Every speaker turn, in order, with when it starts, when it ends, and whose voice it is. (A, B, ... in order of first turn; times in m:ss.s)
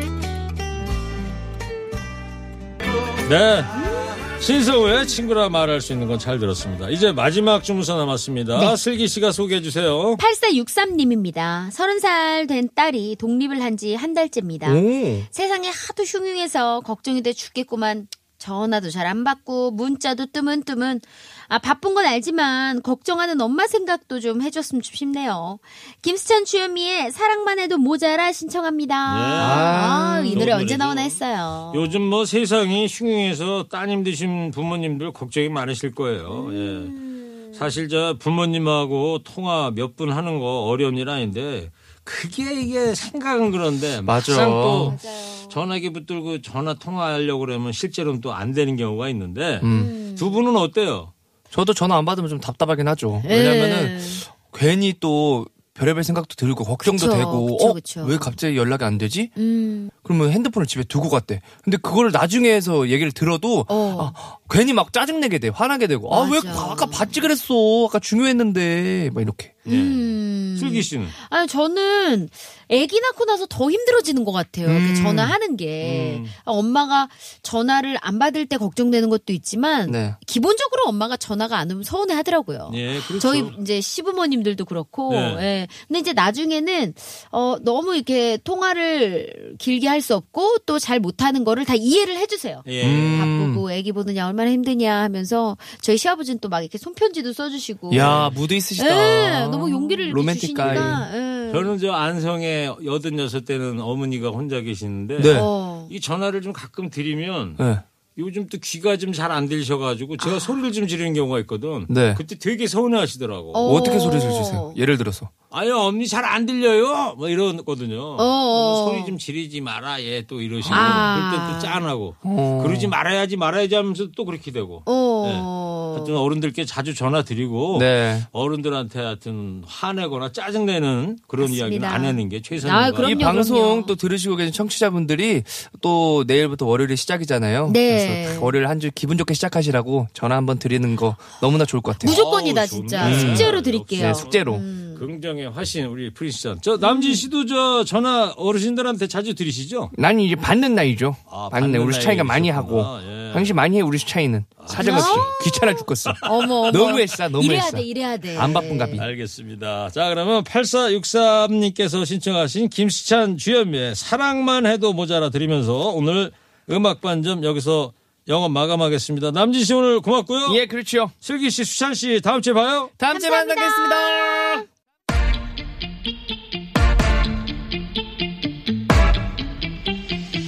0:03.2-0:10.2 A
0:10.2-0:31.9 B
0:14.6-0:15.3 C
0:29.1-0:31.2 A
0:29.4-0:30.5 C
0:31.7-0:36.9 A
0:36.3-0:37.6 B
0:37.5-0:51.1 A
0:44.1-0:45.0 C
0:44.8-0:45.6 B
0:49.6-0:49.9 C
0:49.7-0:50.4 B
0:51.5-0:59.3 C
0:53.2-0:54.2 B
0:56.8-0:58.4 B
0:59.4-0:59.9 B
1:00.0-1:09.6 C
1:03.7-1:04.1 B
1:06.1-1:07.1 B
1:09.7-1:41.7 B
1:09.7-1:11.2 A
1:14.6-1:15.4 C
1:15.8-1:16.3 A
1:19.9-1:20.2 C
1:22.7-1:23.6 A
1:25.1-1:25.4 A
1:32.7-1:33.2 A
1:32.8-1:33.6 C
1:37.9-1:41.0 C
1:38.0-1:38.3 A
1:40.6-1:47.6 A
1:45.2-1:45.5 C
1:45.3-1:45.9 B
1:47.6-1:47.8 C
1:48.2-1:53.8 A
1:50.2-1:50.6 B
1:51.9-1:52.2 C
1:53.6-1:54.8 B
1:53.6-1:55.3 C
1:55.5-2:13.2 A
1:58.2-1:59.2 B
2:00.6-2:01.1 C
2:00.7-2:01.8 B
2:02.2-2:02.9 C
2:04.9-2:06.2 B
2:07.7-2:08.3 C
2:11.4-2:13.9 B
2:13.0-2:22.2 C
2:17.7-2:18.6 B
2:22.0-2:25.0 B
2:22.0-2:29.9 A
2:23.0-2:24.6 C
2:26.8-2:27.2 B
2:29.9-2:39.1 C
2:31.3-2:33.6 A
2:34.6-2:35.3 A
2:34.8-2:39.0 B
2:36.0-2:36.4 A
2:39.0-2:50.6 A
2:50.5-2:51.1 C
2:51.2-2:53.0 A
2:53.0-2:54.7 C
2:53.1-2:54.2 B